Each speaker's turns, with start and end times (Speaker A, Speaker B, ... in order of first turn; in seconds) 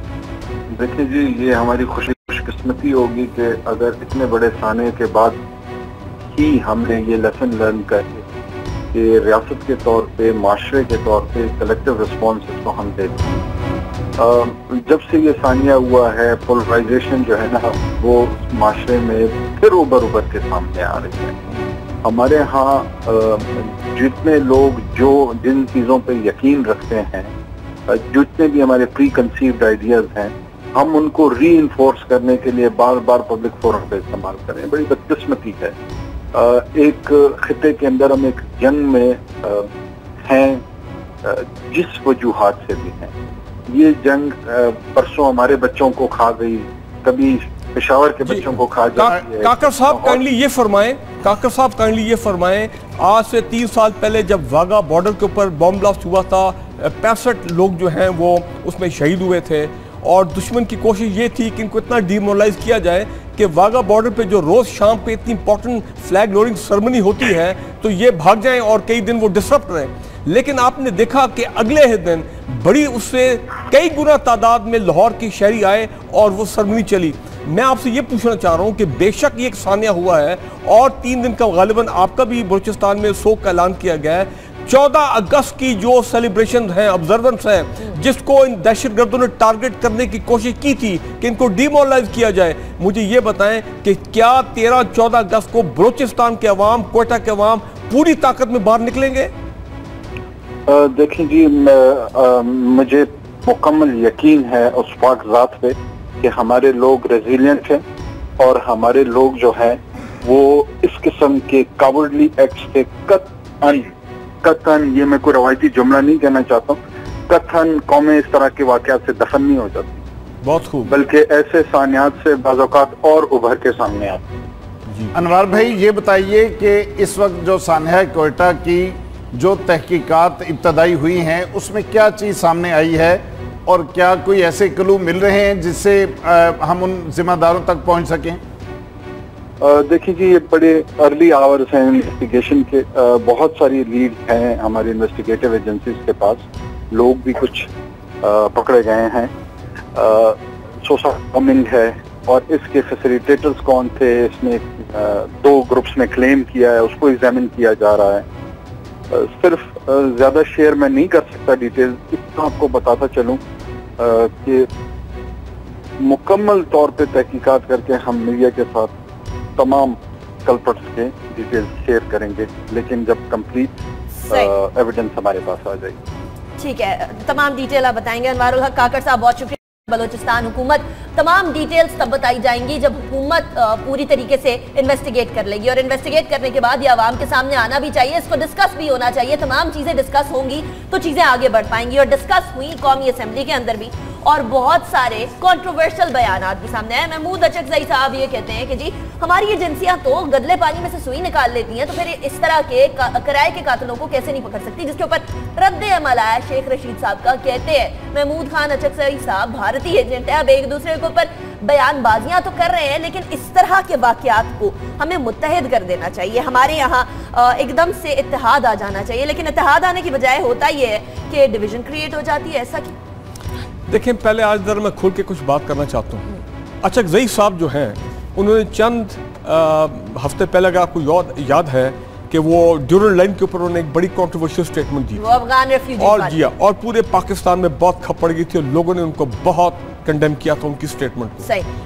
Speaker A: 0.7-5.4, 6.3-8.2, 8.9-13.3, 14.2-21.4, 22.0-27.3, 27.9-35.8, 36.3-39.7, 40.2-40.6, 41.2-43.1, 43.7-50.2, 100.7-107.8, 108.4-113.9, 114.4-120.0, 120.8-124.2, 139.6-147.7, 148.2-149.3, 149.9-158.2, 159.1-163.4, 164.0-164.7, 166.0-168.9, 169.6-173.7, 174.3-176.0
Speaker B: 48.2-99.3, 120.4-121.0, 223.9-226.2, 226.8-235.2, 236.0-241.5
Speaker C: 125.1-138.4
Speaker D: 176.6-222.9, 235.2-236.5, 241.4-241.7